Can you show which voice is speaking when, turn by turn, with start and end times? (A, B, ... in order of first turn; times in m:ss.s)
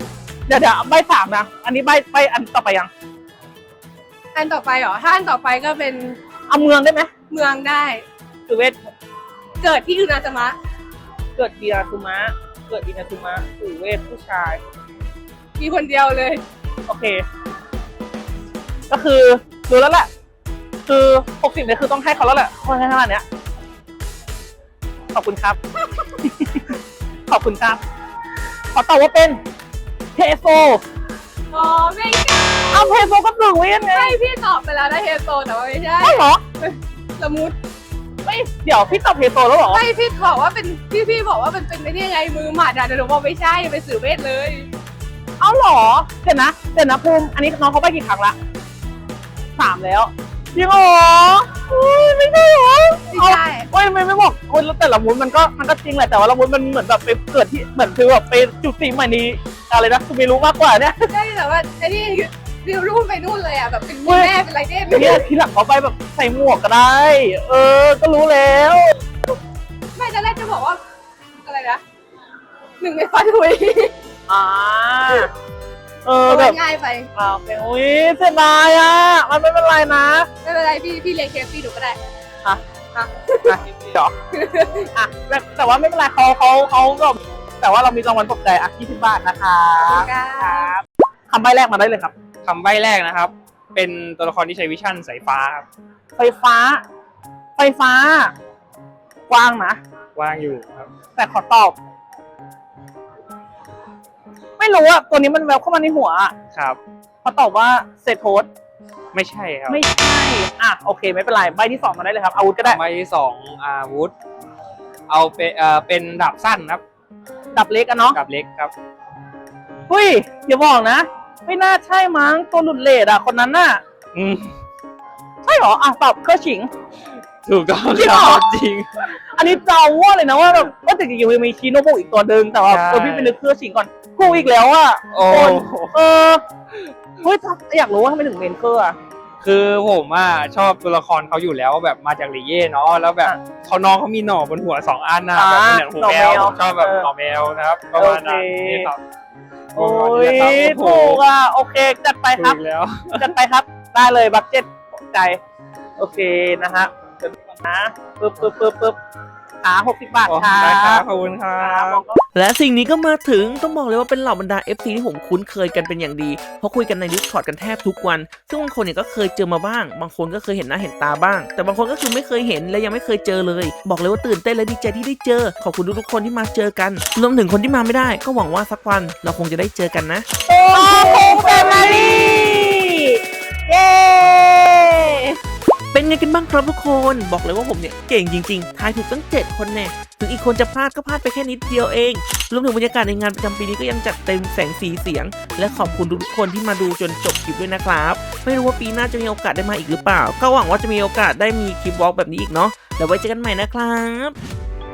0:00.5-0:02.9 A
0:04.3-0:06.2 B
0:06.5-0:07.1 A
0:07.3-0:08.0 B
0:08.5-0:08.9 A
0:09.6-0:10.6 B
0:11.4-0:14.6 A
0:15.6-0:16.4 B
0:16.9-0:17.2 A
0:18.9-0:20.1 A
0:20.9-0:23.2 A
0:25.1-0:27.8 A
0:28.7-0:29.4 A
0:30.2-0:30.8 A
0:31.5-0:33.0 B
0:32.7-0:34.2 A
0:33.9-0:37.5 B
0:36.0-0:36.4 A
0:38.2-0:39.8 A
0:39.7-0:44.7 B
0:45.4-0:48.4 A
0:49.6-1:01.1 A
0:53.1-0:53.7 B
1:01.1-1:05.2 B
1:04.0-1:04.3 A
1:04.9-1:09.0 A
1:09.9-1:10.8 B
1:11.4-1:11.8 B
1:12.8-1:14.0 B
1:14.3-1:15.3 A
1:16.0-1:16.6 A
1:16.2-1:17.1 B
1:17.1-1:20.3 A
1:20.4-1:22.0 B
1:22.9-1:23.6 B
1:23.4-1:24.1 A
1:24.3-1:24.9 B
1:24.9-1:32.1 A
1:29.8-1:30.7 B
1:32.4-1:35.6 C
1:36.2-1:36.8 A
1:37.6-1:38.3 A
1:39.3-1:39.8 A
1:40.2-1:40.9 C
1:41.2-1:41.8 A
1:44.6-1:46.3 A
1:46.5-1:46.8 C
1:47.2-1:48.5 A
1:49.1-1:49.8 C
1:49.7-1:52.8 A
1:52.6-1:54.1 C
1:55.1-1:56.8 C
1:57.5-1:58.2 A
1:58.1-1:58.7 C
1:59.9-2:03.8 A
2:04.1-2:04.5 C
2:05.4-2:06.7 A
2:07.4-2:08.9 C
2:07.9-2:08.5 A
2:09.2-2:16.4 A
2:12.6-2:13.3 C
2:15.1-2:16.0 C
2:17.2-2:19.0 A
2:19.4-2:29.0 C
2:25.3-2:27.1 A
2:27.9-2:28.9 A
2:29.7-2:31.2 C
2:29.8-2:32.6 A
2:32.3-2:33.3 C
2:33.2-2:35.4 A
2:36.0-2:39.0 A
2:39.6-2:41.0 A
2:40.2-2:42.0 C
2:41.6-2:42.2 A
2:42.3-3:00.2 D
3:00.5-3:03.0 A
3:00.7-3:02.8 B
3:03.7-3:05.3 B
3:05.9-3:24.4 D